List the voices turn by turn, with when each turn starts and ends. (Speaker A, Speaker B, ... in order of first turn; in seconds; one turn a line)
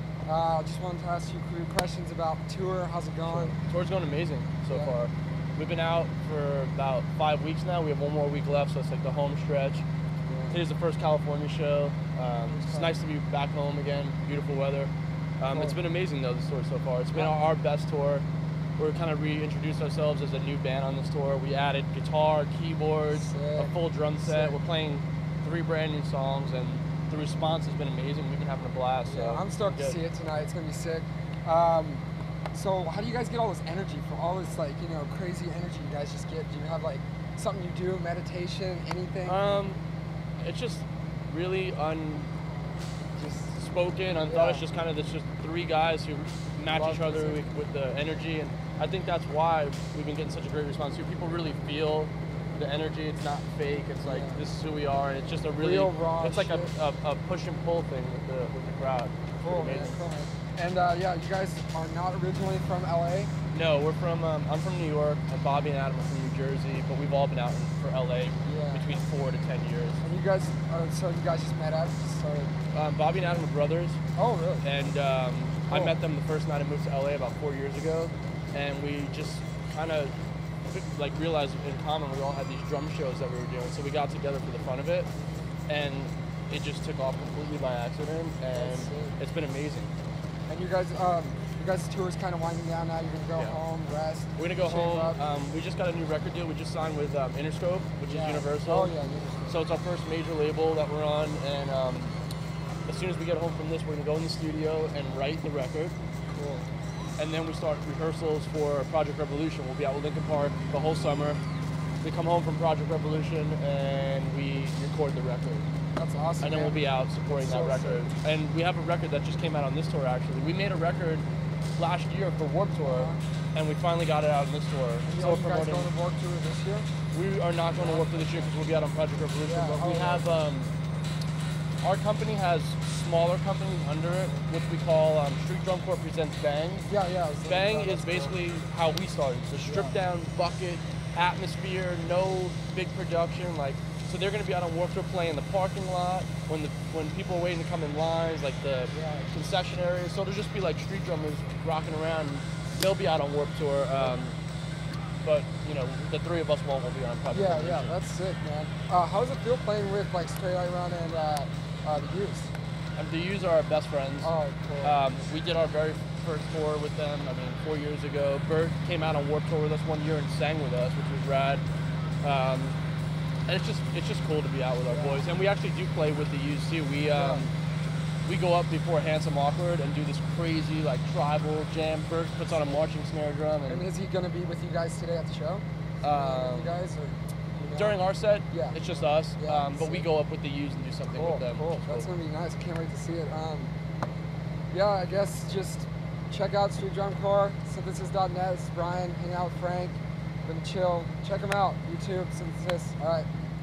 Speaker A: 0.2-3.6
Speaker B: 3.3-9.8
Speaker A: 4.7-5.0
Speaker A: 10.3-10.6
Speaker B: 10.5-18.2
Speaker A: 12.5-12.9
Speaker A: 15.5-15.8
Speaker B: 18.8-30.0
Speaker A: 23.1-24.6
Speaker A: 29.1-39.6
Speaker B: 39.2-39.8
Speaker B: 40.4-42.3
Speaker B: 43.2-60.0
Speaker A: 44.2-44.7
Speaker A: 46.7-47.5
Speaker A: 54.0-54.4
Speaker A: 55.6-56.7
Speaker A: 59.4-63.3
Speaker B: 63.5-70.0
Speaker A: 68.4-69.0
Speaker A: 70.0-72.5
Speaker B: 72.7-74.0
Speaker A: 74.2-74.7
Speaker B: 74.6-80.1
Speaker A: 75.7-76.0
Speaker B: 80.7-85.1
Speaker B: 85.7-89.9
Speaker A: 88.5-89.2
Speaker A: 90.5-95.2
Speaker B: 93.3-93.6
Speaker B: 94.4-98.9
Speaker A: 98.1-99.6
Speaker B: 99.5-102.1
Speaker B: 102.9-106.0
Speaker A: 106.3-106.7
Speaker B: 107.2-111.4
Speaker B: 112.0-115.7
Speaker A: 116.0-118.1
Speaker B: 116.4-121.2
Speaker B: 121.8-125.9
Speaker A: 122.8-123.2
Speaker A: 125.0-126.9
Speaker B: 127.1-130.7
Speaker A: 127.7-128.6
Speaker A: 129.4-130.3
Speaker B: 131.8-136.9
Speaker A: 136.9-138.4
Speaker B: 137.4-154.4
Speaker A: 139.6-139.9
Speaker A: 148.9-149.3
Speaker B: 155.2-157.9
Speaker A: 157.3-162.5
Speaker B: 163.0-171.7
Speaker A: 164.2-165.0
Speaker B: 172.2-172.8
Speaker B: 173.5-177.5
Speaker A: 174.9-175.3
Speaker A: 177.1-177.5
Speaker B: 178.2-183.9
Speaker A: 182.5-182.8
Speaker A: 183.7-190.1
Speaker B: 186.0-186.8
Speaker B: 187.7-192.1
Speaker A: 191.1-193.7
Speaker A: 194.7-203.3